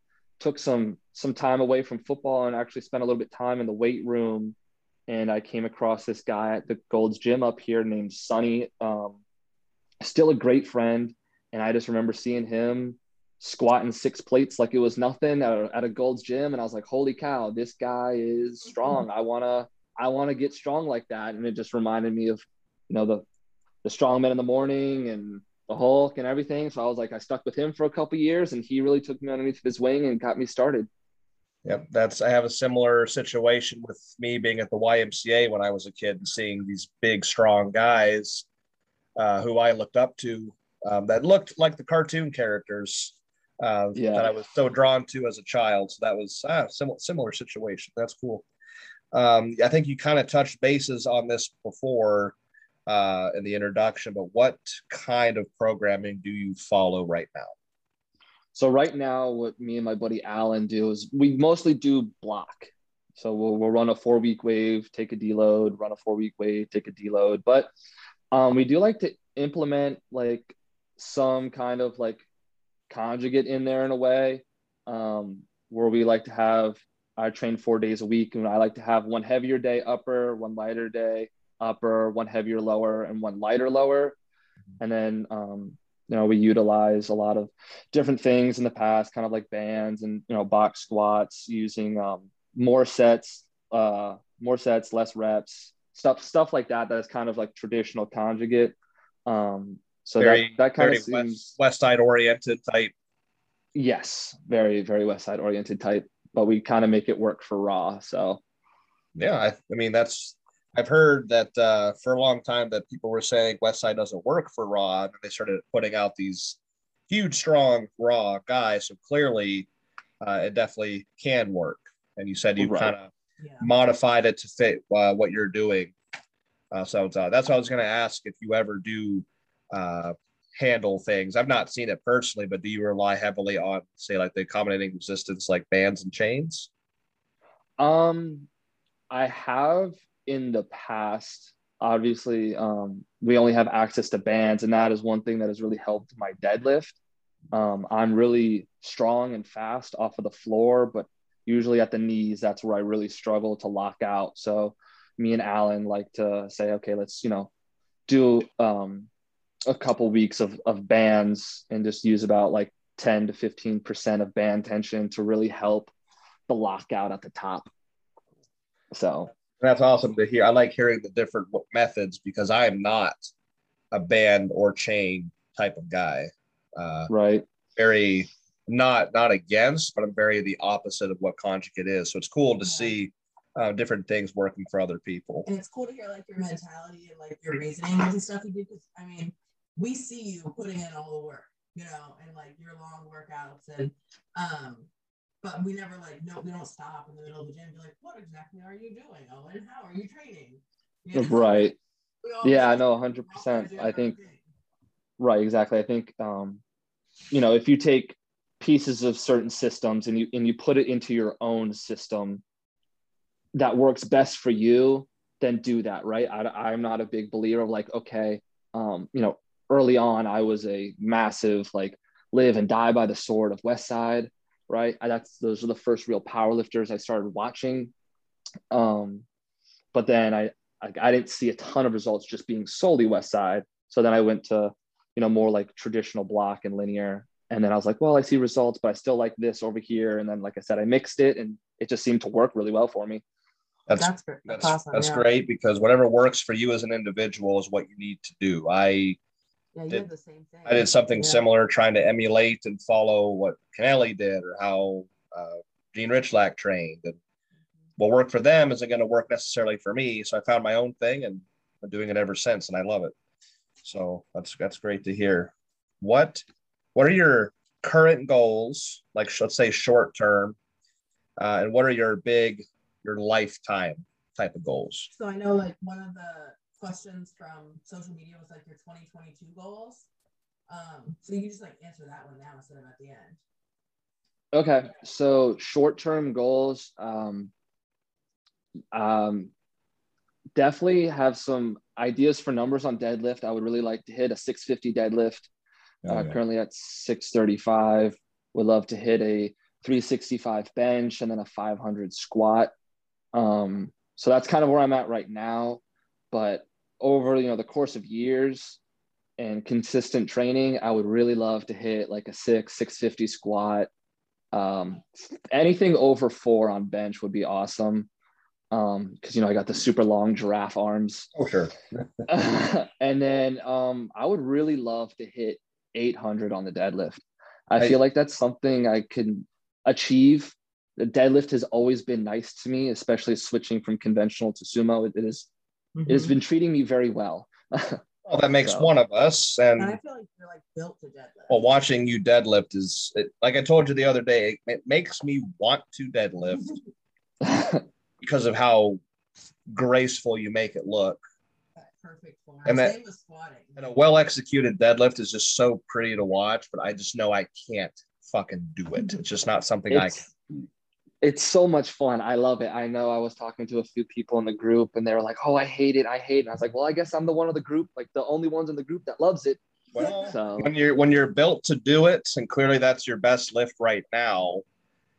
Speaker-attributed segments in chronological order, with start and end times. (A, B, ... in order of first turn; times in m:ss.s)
0:00.4-0:04.6 A
0:05.1-0:09.2 A
0:10.0-0:23.2 A
0:23.8-0:30.9 A
0:31.6-0:38.4 B
0:39.2-0:48.4 B
0:43.9-0:44.3 A
0:49.1-0:52.3 B
0:52.9-0:57.5 B
0:58.5-1:07.7 A
1:08.3-1:12.2 A
1:12.9-1:24.2 A
1:24.8-1:41.5 A
1:40.2-1:42.9 B
1:43.7-1:48.4 A
1:49.1-1:56.6 B
1:57.1-1:59.7 B
2:00.2-2:03.1 B
2:02.6-2:02.9 A
2:03.4-2:03.6 C
2:03.6-2:05.9 B
2:06.7-2:16.7 B
2:17.8-2:18.5 A
2:19.1-2:27.0 A
2:27.5-2:37.5 A
2:38.1-2:39.1 A
2:39.7-2:45.9 A
2:46.5-2:47.7 A
2:48.9-2:49.3 A
2:49.6-2:53.2 B
2:53.9-2:57.1 B
2:57.1-2:57.4 A
2:57.8-3:05.4 B
3:02.6-3:02.9 C
3:05.4-3:14.9 C
3:15.4-3:24.4 C
3:21.1-3:21.8 A
3:22.4-3:24.1 A
3:25.2-3:26.6 A
3:27.3-3:32.4 A
3:33.5-3:47.9 A
3:48.7-3:49.2 A
3:49.9-4:03.2 A
4:03.9-4:09.2 B
4:03.9-4:05.2 C
4:09.7-4:11.4 C
4:10.6-4:17.2 B
4:18.0-4:23.1 B
4:23.8-4:26.4 B
4:26.9-4:30.6 B
4:31.4-4:35.1 B
4:35.1-4:40.1 C
4:40.7-4:43.4 C
4:44.5-4:47.5 A
4:48.9-4:49.5 A
4:50.5-4:55.5 A
4:56.0-4:56.4 B
4:56.1-5:02.7 A
5:03.3-5:08.8 A
5:09.4-5:13.9 A
5:14.5-5:18.1 A
5:18.7-5:21.3 A
5:21.3-5:22.3 B
5:22.3-5:35.5 A
5:36.0-5:36.3 C
5:36.1-5:38.0 A
5:38.2-5:40.0 B
5:38.6-5:38.9 A
5:39.8-5:41.6 C
5:41.5-5:46.7 B
5:47.4-5:47.8 A
5:48.2-5:49.0 B
5:49.7-5:51.2 B
5:51.8-5:53.8 C
5:52.6-5:53.0 B
5:53.8-6:00.3 B
5:59.9-6:00.2 A
6:01.2-6:10.7 A
6:09.9-6:14.6 B
6:10.0-6:10.3 C